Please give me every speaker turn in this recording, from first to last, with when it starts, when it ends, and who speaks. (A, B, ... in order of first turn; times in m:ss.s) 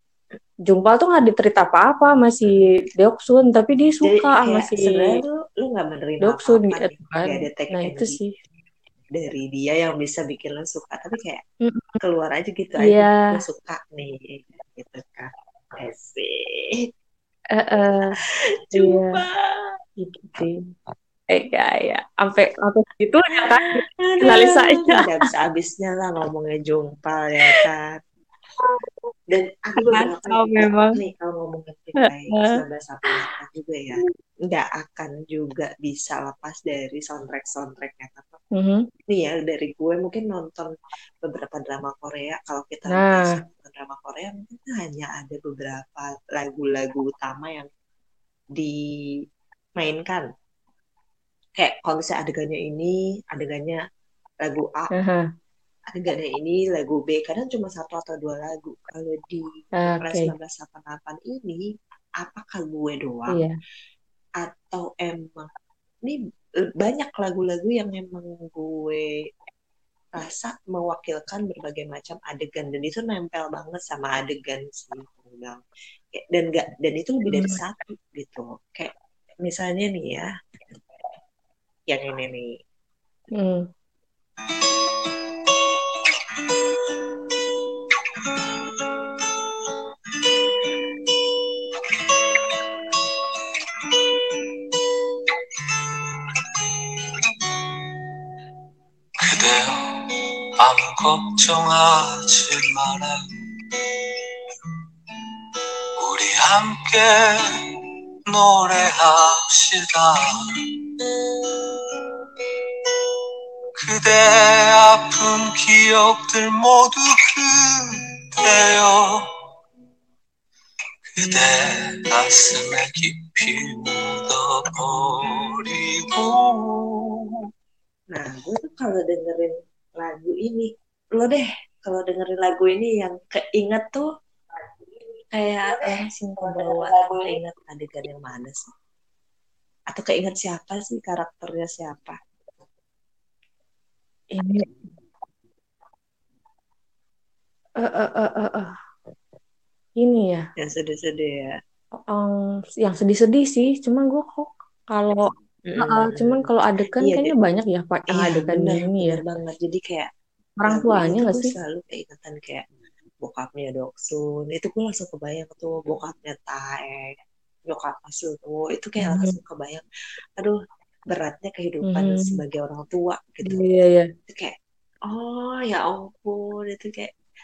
0:00.7-0:05.2 A
0:04.0-0:08.2 B
0:06.2-0:08.3 A
0:09.1-0:11.4 B
0:11.6-0:12.0 A
0:12.0-0:16.8 B
0:12.8-0:13.3 A
0:17.5-0:18.2 A
0:18.6-0:19.8 B
0:18.7-0:19.2 A
0:20.0-0:20.6 A
0:21.3-0:25.0 A
0:24.0-0:28.0 B
0:29.3-0:38.4 B
0:29.8-0:31.0 A
0:32.0-0:32.6 A
0:38.5-0:38.8 A
0:39.1-0:47.7 B
0:42.9-0:43.4 A
0:49.8-0:50.3 B
0:51.6-0:53.8 B
0:54.4-0:54.9 B
0:54.9-0:55.2 A
0:55.9-1:01.6 B
0:59.8-1:00.3 A
1:02.2-1:03.4 B
1:03.3-1:03.6 A
1:04.4-1:05.5 B
1:06.8-1:09.0 B
1:10.1-1:18.9 B
1:17.3-1:17.6 A
1:19.4-1:20.3 B
1:21.9-1:22.6 B
1:23.4-1:23.7 A
1:28.3-1:28.9 C
1:31.9-1:33.0 C
1:33.7-1:34.9 C
1:35.5-1:37.7 C
1:39.2-1:43.3 C
1:44.0-1:44.2 C
1:46.0-1:47.2 C
1:48.3-1:50.4 C
1:51.0-1:52.0 C
1:53.8-1:59.3 C
2:01.2-2:07.3 C
2:08.1-2:14.1 B
2:15.3-2:18.7 B
2:16.1-2:17.3 A
2:19.9-2:22.2 B
2:24.4-2:24.7 A
2:27.8-2:28.7 A
2:30.0-2:30.4 A
2:30.6-2:31.6 B
2:32.1-2:39.2 A
2:35.6-2:37.3 B
2:38.1-2:40.1 B
2:40.6-2:41.5 A
2:40.7-2:42.6 B
2:43.2-2:47.2 B
2:47.7-2:49.8 B
2:49.0-2:49.4 A
2:51.1-2:53.6 B
2:51.8-2:52.4 A
2:53.4-2:54.1 A
2:54.3-2:54.6 B
2:55.1-2:57.1 B